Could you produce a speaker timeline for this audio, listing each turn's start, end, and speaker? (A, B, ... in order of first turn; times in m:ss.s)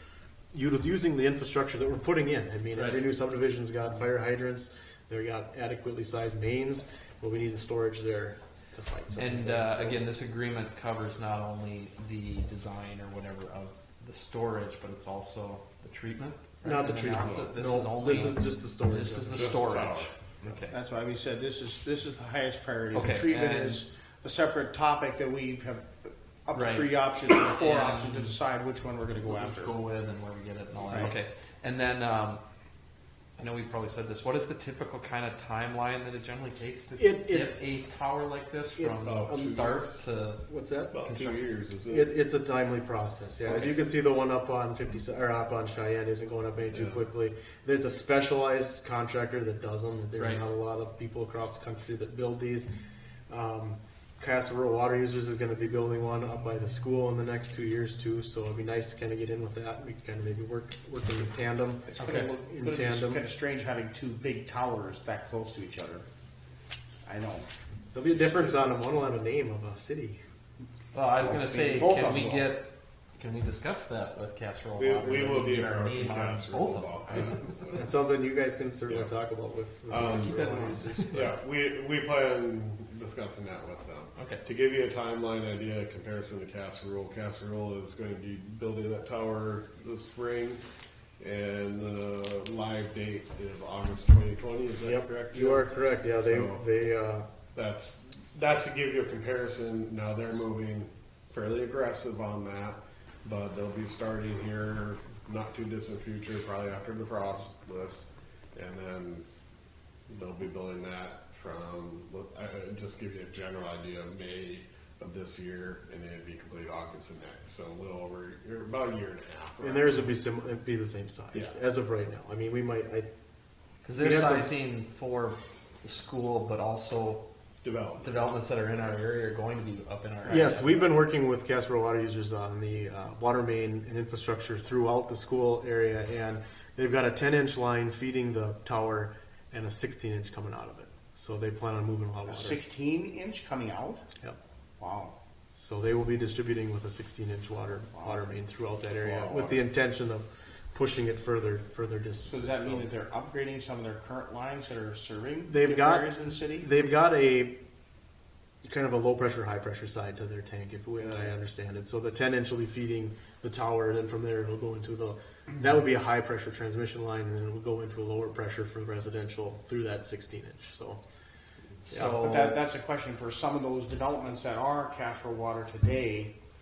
0:00.5-0:10.1 A
0:02.7-0:03.0 B
0:09.2-0:20.7 B
0:16.6-0:19.8 A
0:17.2-0:17.5 C
0:19.3-0:20.1 C
0:20.7-0:29.8 D
0:22.9-0:23.8 B
0:26.5-0:28.4 B
0:29.2-0:32.4 B
0:30.9-0:31.1 D
0:33.4-0:40.5 B
0:37.0-0:37.6 A
0:38.8-0:40.9 A
0:39.0-0:39.9 C
0:40.9-0:42.2 C
0:41.0-0:41.4 B
0:41.9-0:52.7 A
0:43.4-0:43.7 C
0:46.7-0:47.0 C
0:50.2-0:50.5 B
0:53.3-1:03.2 A
1:02.0-1:02.3 B
1:02.0-1:06.0 D
1:07.0-1:07.5 D
1:07.9-1:10.2 A
1:10.9-1:17.3 B
1:11.2-1:12.5 D
1:14.7-1:17.9 C
1:17.7-1:21.4 A
1:18.9-1:19.1 C
1:19.9-1:20.5 C
1:20.2-1:21.1 B
1:21.1-1:30.6 C
1:24.2-1:24.4 B
1:31.2-1:36.6 C
1:34.8-1:37.3 A
1:37.5-1:49.2 C
1:50.1-2:00.2 C
1:59.6-2:03.1 A
2:03.8-2:07.2 B
2:04.0-2:04.5 A
2:07.6-2:09.0 C
2:08.0-2:10.9 B
2:10.3-2:22.6 A
2:22.2-2:24.0 D
2:24.8-2:25.1 D
2:25.6-2:32.9 A
2:27.9-2:28.2 D
2:28.9-2:29.6 D
2:32.2-2:36.7 D
2:35.5-2:37.6 A
2:38.6-2:51.0 A
2:51.8-2:52.6 B
2:51.9-2:56.3 D